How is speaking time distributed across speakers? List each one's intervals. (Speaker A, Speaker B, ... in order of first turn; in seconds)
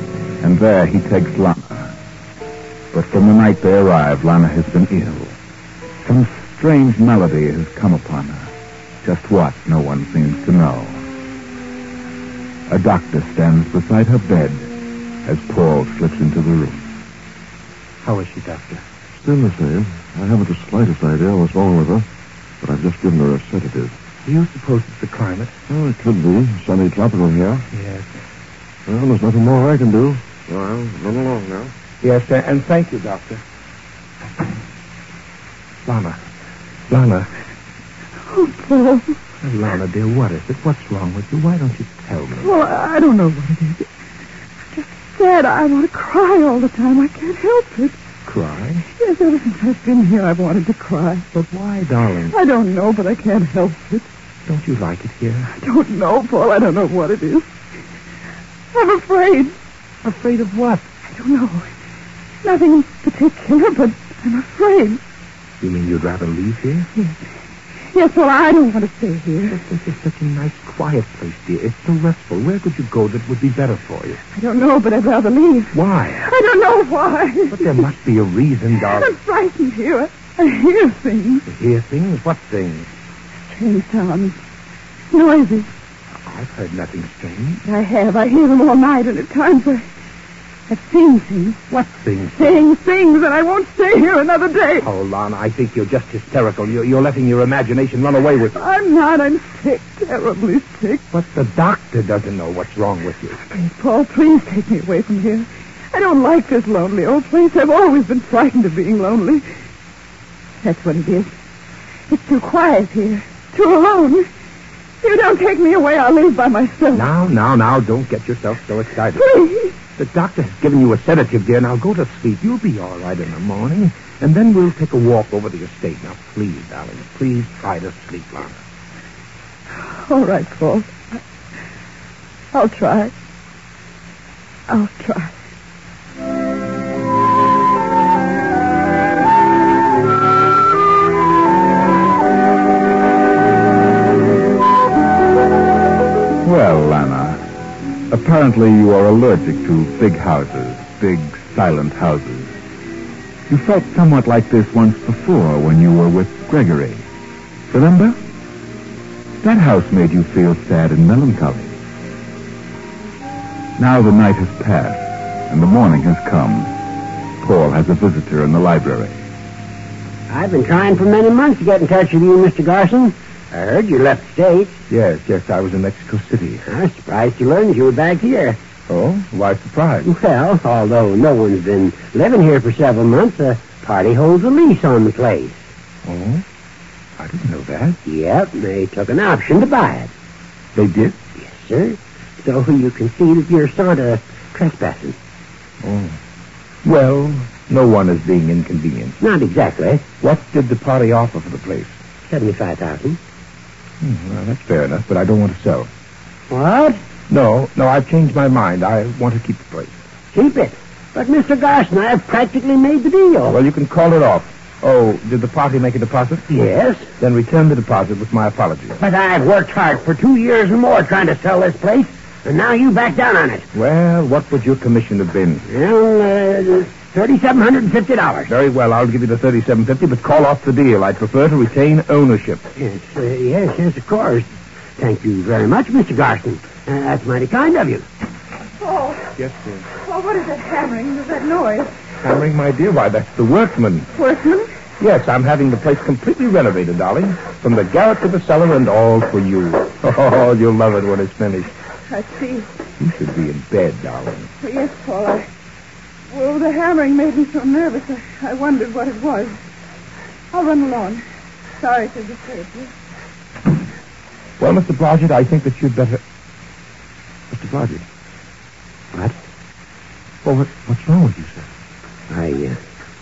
Speaker A: 0.4-1.9, 2.9-5.3, 6.0-8.5, 9.0-11.0, 12.7-14.7, 15.2-16.8, 146.4-147.4, 148.1-152.5, 153.5-157.0, 157.7-158.2, 159.4-161.8, 163.8-166.7, 167.4-169.2
Speaker B: 18.0-18.8, 24.2-25.5, 27.7-28.1, 32.0-33.4, 35.8-36.2, 36.9-37.3, 39.4-42.5, 48.2-48.9, 51.3-52.3, 54.5-55.5, 60.0-60.9, 65.6-66.9, 69.5-74.2, 75.7-76.2, 77.5-79.1, 81.5-82.9, 86.2-87.6, 91.7-92.5, 94.8-98.6, 101.1-103.4, 116.9-119.3, 120.0-128.6, 174.9-176.6, 178.9-180.1, 186.0-186.4, 187.2-188.0, 190.7-191.2, 195.8-196.2, 196.8-199.2, 200.2-201.9, 204.0-205.9, 207.3-209.9, 213.5-216.5, 217.2-219.0, 223.7-225.6, 228.5-232.6, 239.3-239.8, 242.2-244.1, 245.0-251.7, 253.0-254.5, 264.6-266.2, 267.5-268.0, 270.4-271.6
Speaker C: 19.2-22.1, 22.6-23.9, 25.7-27.6, 28.9-30.2, 30.9-31.4
Speaker D: 38.3-39.1, 42.4-43.9, 44.7-48.0, 49.0-51.2, 52.3-54.1, 55.5-57.5, 58.7-59.5, 61.1-61.7, 62.4-65.0, 67.9-69.6, 74.3-77.8, 78.9-81.5, 83.5-84.4, 85.1-85.7, 87.6-89.8, 90.7-91.6, 92.3-94.9, 98.5-101.0, 103.4-109.4, 110.6-111.3, 112.1-114.3, 115.0-117.1, 119.2-119.7, 129.9-130.9, 132.5-133.1, 134.7-135.3, 238.8-239.3, 239.9-241.9, 244.2-244.7, 252.1-252.7, 254.6-255.4, 256.3-259.6, 260.5-261.2, 261.8-262.9
Speaker E: 170.3-174.8, 176.7-178.6, 180.0-185.6, 188.1-190.1, 191.4-195.2, 199.2-200.1, 202.3-203.2, 206.5-207.0, 210.3-213.6, 216.5-217.1, 219.0-223.7, 225.7-228.5, 232.8-238.0, 272.3-272.8